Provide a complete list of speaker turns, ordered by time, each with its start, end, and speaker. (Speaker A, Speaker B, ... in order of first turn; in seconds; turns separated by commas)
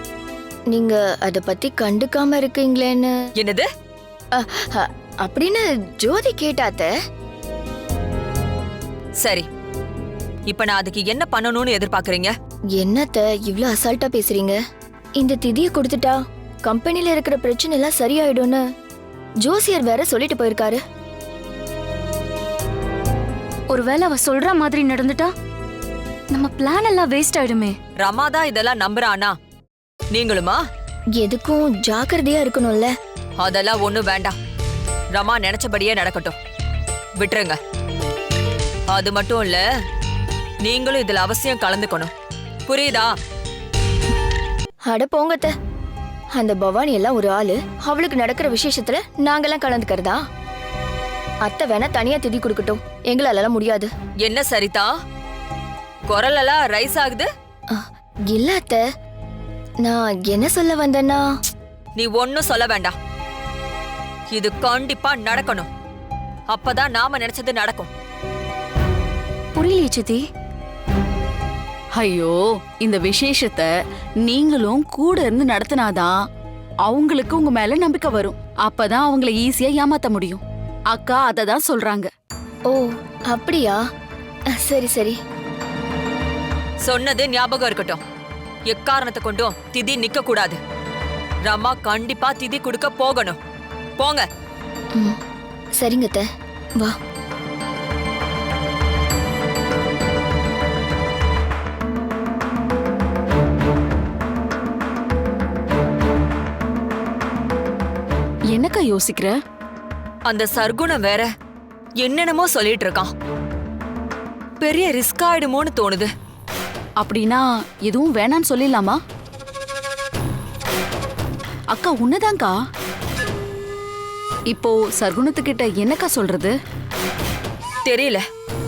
Speaker A: 0.7-3.1, Speaker B: 3.4-3.7, Speaker A: 4.4-6.9, Speaker B: 9.2-9.5, Speaker B: 10.5-12.3, Speaker A: 12.8-14.6, Speaker A: 15.2-18.6, Speaker A: 19.4-20.8, Speaker C: 23.7-25.3, Speaker C: 26.3-27.8, Speaker B: 28.0-29.3, Speaker B: 30.1-30.6, Speaker A: 31.2-32.9, Speaker B: 33.4-34.4, Speaker B: 35.1-36.4, Speaker B: 37.2-37.6, Speaker B: 38.9-39.6, Speaker B: 40.6-42.1, Speaker B: 42.7-43.1, Speaker A: 44.9-45.5, Speaker A: 46.4-50.2, Speaker A: 51.5-53.9, Speaker B: 54.2-54.9, Speaker B: 56.1-57.3, Speaker A: 57.7-58.8, Speaker A: 59.8-61.3, Speaker B: 62.0-62.9, Speaker B: 64.3-65.7, Speaker B: 66.5-67.9, Speaker C: 69.6-70.2, Speaker D: 72.0-73.7, Speaker D: 74.2-76.1, Speaker D: 76.8-82.1, Speaker A: 82.7-83.8, Speaker A: 84.6-85.2, Speaker B: 86.8-88.0, Speaker B: 88.7-90.6, Speaker B: 91.5-93.4, Speaker B: 94.0-94.3, Speaker A: 95.8-96.2, Speaker D: 108.5-109.4, Speaker B: 110.3-111.3, Speaker B: 112.0-113.1, Speaker B: 114.6-116.1, Speaker D: 117.0-119.0, Speaker D: 121.7-122.5, Speaker D: 124.5-126.5, Speaker B: 127.9-128.2